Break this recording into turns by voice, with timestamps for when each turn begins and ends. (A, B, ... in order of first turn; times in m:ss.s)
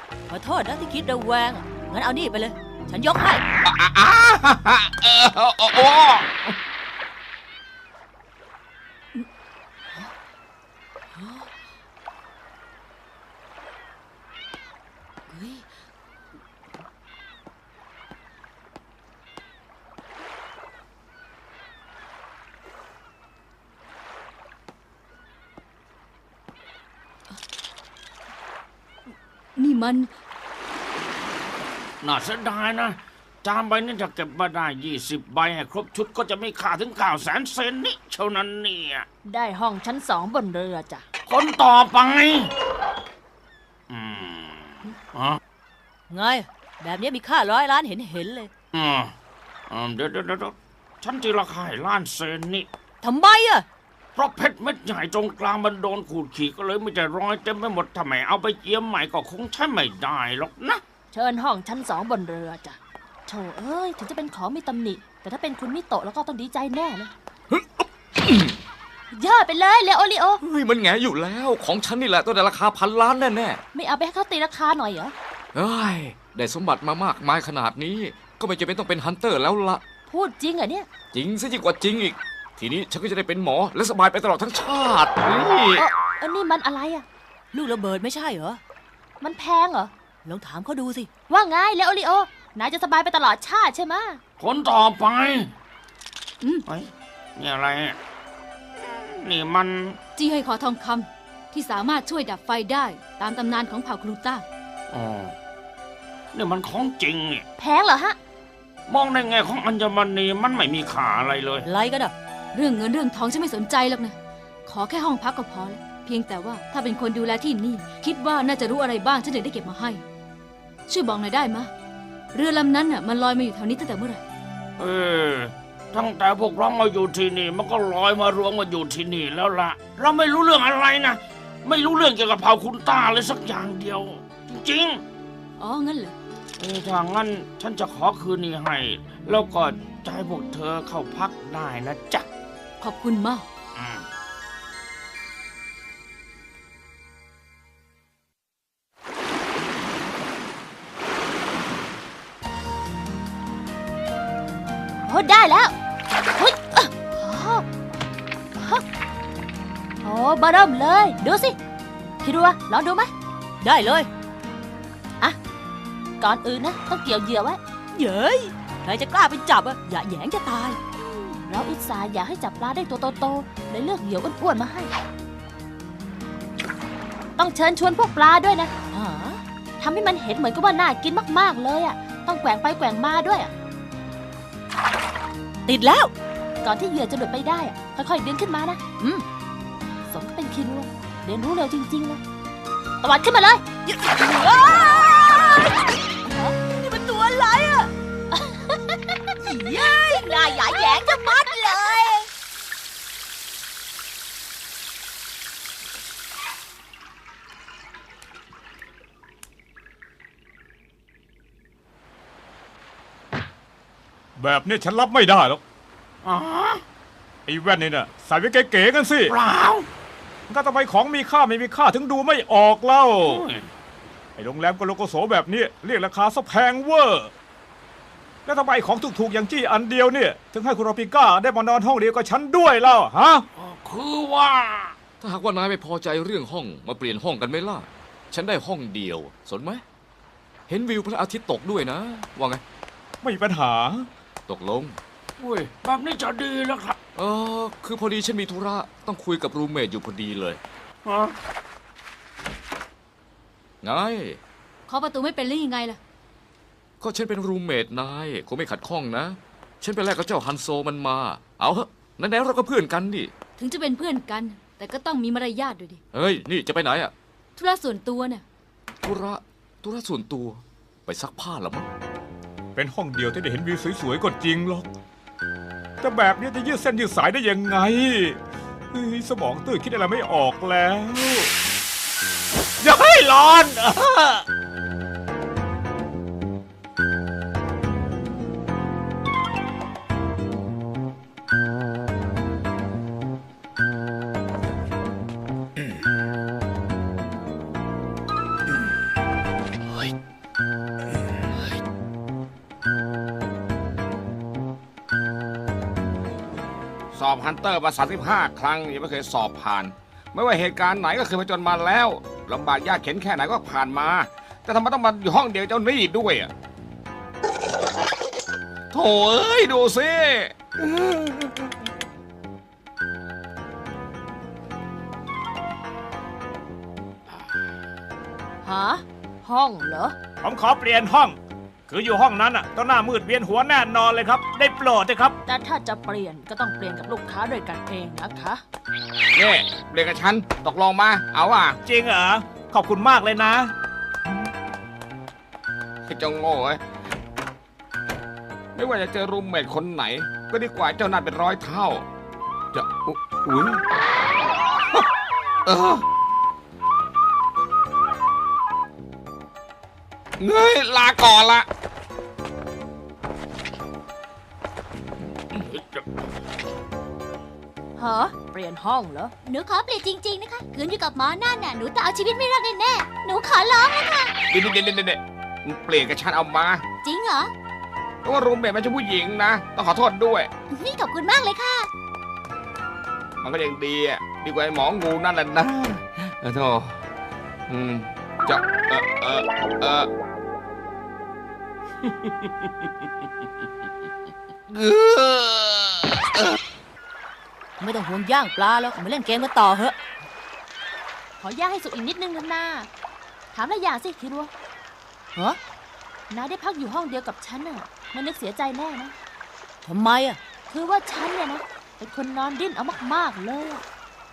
0:00.3-0:03.4 A
0:03.6-0:06.6 B
0:11.2-0:11.5 C
0:15.3-0:15.6 C
0:29.6-0:30.1 C
0:32.0-0:39.1 D
0:39.2-0:41.0 E
0:41.3-0:42.5 D
0:43.9-0:45.4 D
0:46.1-0:48.5 A
0:48.7-0:49.1 D
0:49.7-0:52.7 D
0:53.0-0:53.6 A
0:54.2-1:00.8 D
1:01.1-1:07.1 E
1:07.5-1:08.6 F
1:09.1-1:10.4 E
1:10.4-1:13.6 F
1:13.7-1:15.1 E
1:15.5-1:19.8 F
1:20.1-1:20.9 E
1:21.1-1:25.8 F
1:25.8-1:27.0 E
1:27.5-1:28.6 A
1:29.2-1:29.9 E
1:30.2-1:31.1 A
1:31.3-1:34.2 E
1:34.4-1:35.5 D
1:36.7-1:38.0 D
1:38.8-1:40.0 D
1:40.2-1:44.4 C
1:44.9-1:45.4 D
1:46.3-1:47.4 D
1:47.6-1:48.2 E
1:48.9-1:51.7 D
1:51.6-1:52.1 A
1:52.5-2:00.0 C
2:00.9-2:01.7 C
2:02.3-2:04.2 C
2:04.8-2:15.0 D
2:15.6-2:16.2 C
2:16.6-2:22.3 D
2:22.8-2:23.5 C
2:23.8-2:24.1 D
2:35.1-2:35.7 E
2:36.4-2:37.6 E
2:38.6-2:38.8 E
2:40.0-2:41.6 E
2:42.2-2:43.1 E
2:43.6-2:44.1 A
2:46.2-2:47.6 E
2:48.0-2:50.8 A
2:51.0-2:54.9 E
2:57.4-2:58.7 E
2:58.9-2:59.4 A
2:59.8-3:03.5 E
3:05.7-3:06.1 A
3:06.6-3:08.8 E
3:10.1-3:12.2 E
3:13.0-3:13.7 E
3:13.8-3:15.8 A
3:16.2-3:16.6 E
3:16.6-3:17.9 A
3:18.3-3:19.0 E
3:19.4-3:22.3 A
3:19.7-3:21.9 E
3:34.4-3:35.6 G
3:36.2-3:36.8 D
3:37.5-3:39.4 G
3:39.3-3:39.9 D
3:40.5-3:43.4 G
3:43.2-3:43.7 D
3:44.4-3:47.3 G
3:48.5-3:53.4 G
3:53.6-3:55.0 D
3:55.2-3:59.8 F
4:00.7-4:02.6 F
4:03.2-4:04.1 G
4:04.5-4:05.0 F
4:05.4-4:07.0 D
4:07.2-4:10.6 F
4:11.0-4:11.4 D
4:13.8-4:14.4 F
4:14.9-4:16.0 C
4:17.0-4:23.3 F
4:23.6-4:26.0 C
4:26.1-4:27.1 F
4:27.6-4:28.4 C
4:29.0-4:31.9 F
4:32.8-4:34.9 G
4:36.0-4:38.4 G
4:38.9-4:41.5 G
4:42.8-4:44.4 G
5:07.1-5:16.5 B
5:18.9-5:21.7 B
5:28.6-5:30.2 E
5:30.4-5:31.4 G
5:31.9-5:35.4 G
5:35.5-5:38.6 E
5:39.4-5:41.8 B
5:41.8-5:43.7 G
5:46.1-5:46.8 B
5:48.8-5:52.1 B
5:52.7-5:53.8 B
5:55.7-5:56.0 B
6:00.4-6:01.7 B
6:05.6-6:06.0 D
6:08.0-6:09.3 E
6:09.5-6:14.3 H
6:14.5-6:16.8 B
6:17.0-6:17.5 H
6:18.2-6:20.5 B
6:20.7-6:21.9 H
6:23.4-6:27.0 B
6:27.7-6:30.1 B
6:32.1-6:32.9 D
6:34.7-6:36.6 B
6:37.8-6:40.0 A
6:41.4-6:42.9 E
6:43.5-6:44.5 E
6:46.3-6:49.1 E
6:49.8-6:50.4 A
6:50.7-6:53.8 E